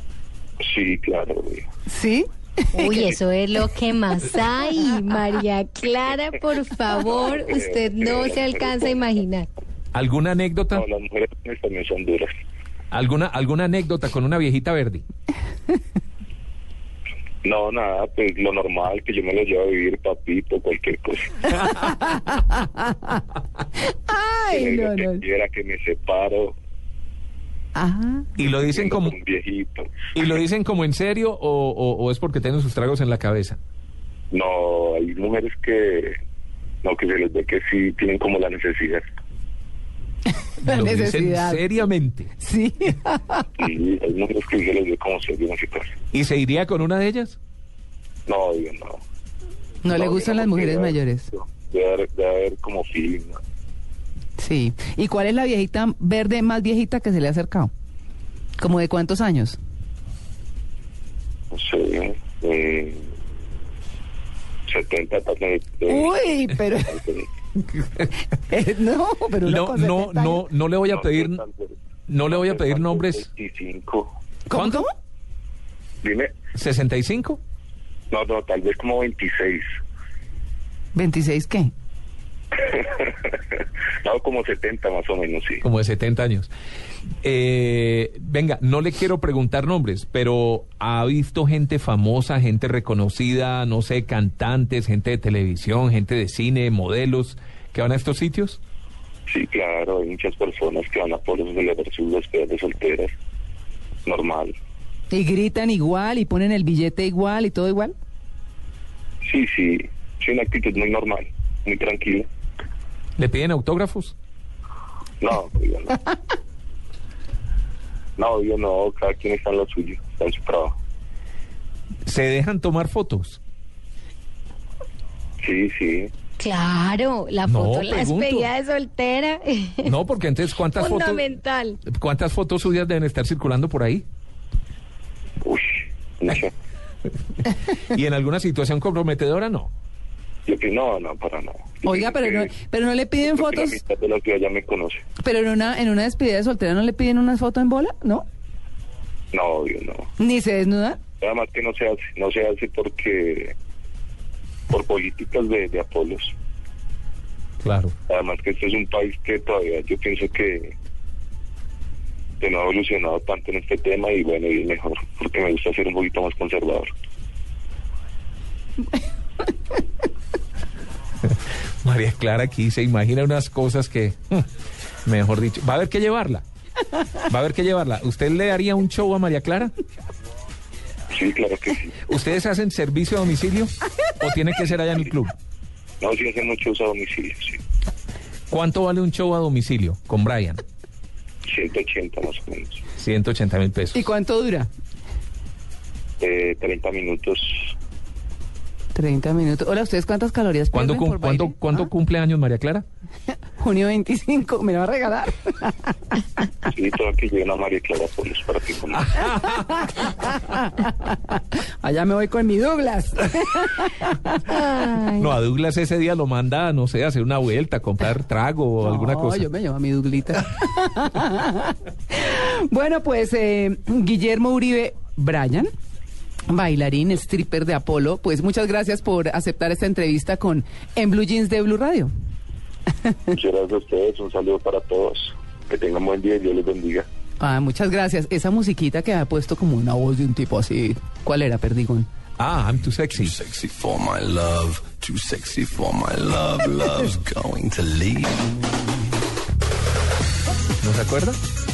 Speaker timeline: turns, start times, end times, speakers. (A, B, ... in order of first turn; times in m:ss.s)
0:00.6-0:01.7 A
0:01.9-0:02.9 B
0:02.7-0:09.5 C
0:07.0-0:09.0 A
0:09.9-0:10.8 D
0:10.7-0:12.3 A
0:12.9-0:15.0 D
0:17.4-0:21.5 A
0:21.8-0:23.2 B
0:24.1-0:25.2 B
0:24.5-0:26.6 A
0:27.7-0:28.3 B
0:28.4-0:29.1 D
0:28.5-0:29.9 A
0:30.1-0:33.6 D
0:34.3-0:36.2 A
0:36.8-0:39.0 A
0:40.6-0:42.3 D
0:40.6-0:41.7 B
0:42.4-0:43.4 B
0:43.6-0:45.9 A
0:46.1-0:47.4 D
0:48.3-0:49.0 A
0:49.8-0:51.3 B
0:49.9-0:53.4 A
0:54.4-0:57.7 B
0:58.6-0:59.6 B
1:01.5-1:03.1 A
1:04.7-1:06.2 A
1:05.9-1:07.0 B
1:06.8-1:07.3 A
1:07.8-1:08.1 D
1:08.5-1:10.4 B
1:09.4-1:11.4 D
1:10.9-1:14.1 A
1:12.1-1:13.2 D
1:14.5-1:14.9 B
1:14.5-1:14.8 D
1:16.0-1:16.3 A
1:16.5-1:17.4 D
1:18.1-1:19.6 A
1:20.9-1:21.7 B
1:22.6-1:25.6 A
1:25.6-1:26.5 D
1:27.2-1:38.6 D
1:39.3-1:43.1 A
1:44.0-1:44.5 A
1:45.1-1:47.9 B
1:49.2-1:52.3 A
1:53.2-1:54.1 D
1:55.2-1:56.0 A
1:58.2-2:00.7 A
2:02.0-2:03.4 D
2:05.4-2:06.1 A
2:06.4-2:09.9 C
2:07.4-2:08.5 D
2:09.8-2:11.3 D
2:10.7-2:11.8 C
2:11.9-2:14.0 D
2:15.4-2:16.5 A
2:17.8-2:19.7 D
2:20.4-2:22.5 A
2:21.8-2:23.8 B
2:23.2-2:25.0 A
2:25.2-2:28.2 B
2:29.3-2:30.1 A
2:30.2-2:31.0 B
2:31.2-2:33.5 A
2:34.7-2:36.3 A
2:37.6-2:37.9 D
2:38.1-2:40.7 A
2:42.4-2:46.9 A
2:51.8-2:54.4 D
2:55.0-2:56.4 D
2:57.3-2:59.7 D
3:01.1-3:01.9 A
3:02.1-3:05.3 D
3:06.0-3:07.6 A
3:08.5-3:10.6 D
3:11.4-3:12.8 A
3:13.0-3:14.0 D
3:13.9-3:14.7 B
3:16.2-3:17.7 A
3:18.9-3:21.9 B
3:20.7-3:22.8 D
3:23.6-3:25.9 B
3:26.7-3:29.2 A
3:29.0-3:29.9 D
3:29.6-3:35.4 B
3:35.2-3:39.4 D
3:38.8-3:45.7 B
3:46.5-3:52.1 B
3:53.3-3:57.1 A
3:57.4-4:02.1 B
4:02.4-4:03.4 D
4:03.2-4:09.1 E
4:10.8-4:11.4 D